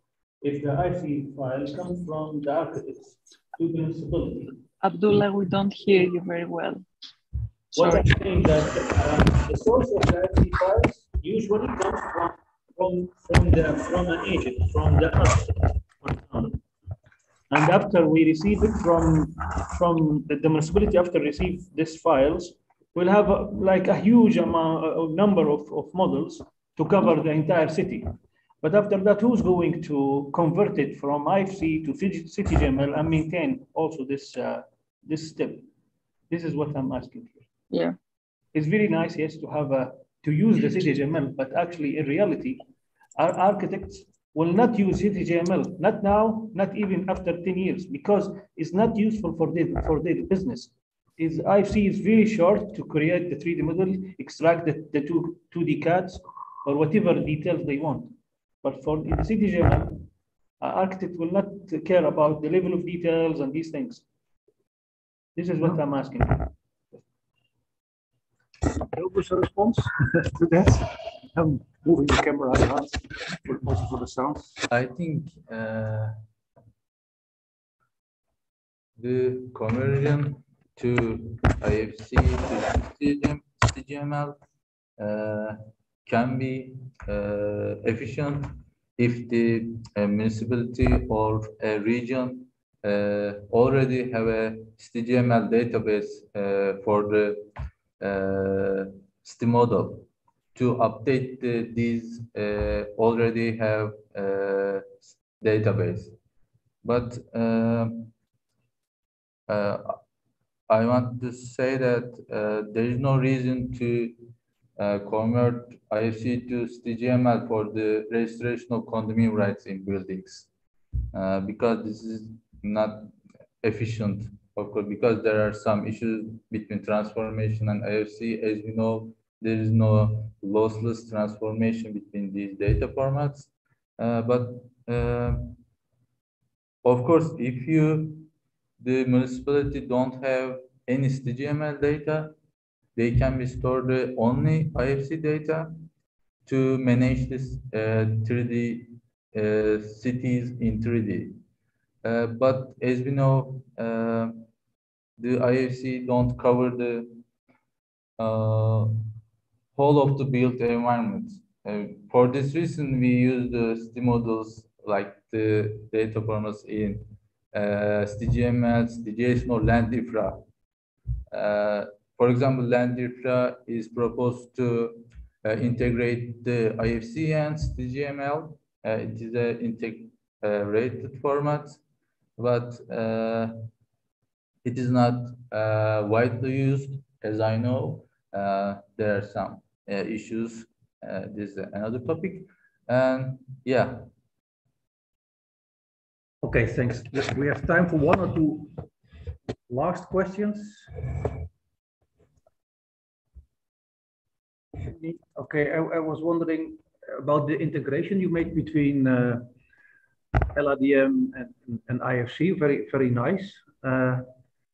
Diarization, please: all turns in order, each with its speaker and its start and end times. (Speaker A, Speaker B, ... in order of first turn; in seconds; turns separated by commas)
Speaker A: 0.4-4.6, Speaker B: 4.8-6.8, Speaker A: 7.7-16.6, Speaker B: 7.8-8.0, Speaker A: 17.5-35.7, Speaker A: 36.3-37.4, Speaker B: 37.7-38.0, Speaker A: 38.5-42.6, Speaker A: 43.1-60.1, Speaker A: 60.6-64.0, Speaker A: 65.3-66.5, Speaker C: 68.8-74.6, Speaker D: 74.7-76.1, Speaker D: 79.0-84.3, Speaker D: 85.0-97.4, Speaker D: 98.0-106.1, Speaker D: 106.8-108.1, Speaker D: 109.5-110.0, Speaker D: 110.7-114.2, Speaker D: 114.8-120.5, Speaker D: 121.1-135.5, Speaker D: 136.8-138.3, Speaker D: 138.8-142.3, Speaker D: 142.9-145.7, Speaker D: 146.4-151.4, Speaker D: 152.0-154.4, Speaker D: 155.2-157.2, Speaker D: 158.2-158.9, Speaker D: 159.7-170.4, Speaker D: 171.3-181.8, Speaker D: 182.4-183.6, Speaker D: 184.6-194.1, Speaker C: 196.4-198.8, Speaker C: 199.7-201.1, Speaker C: 204.7-209.5, Speaker C: 210.5-214.3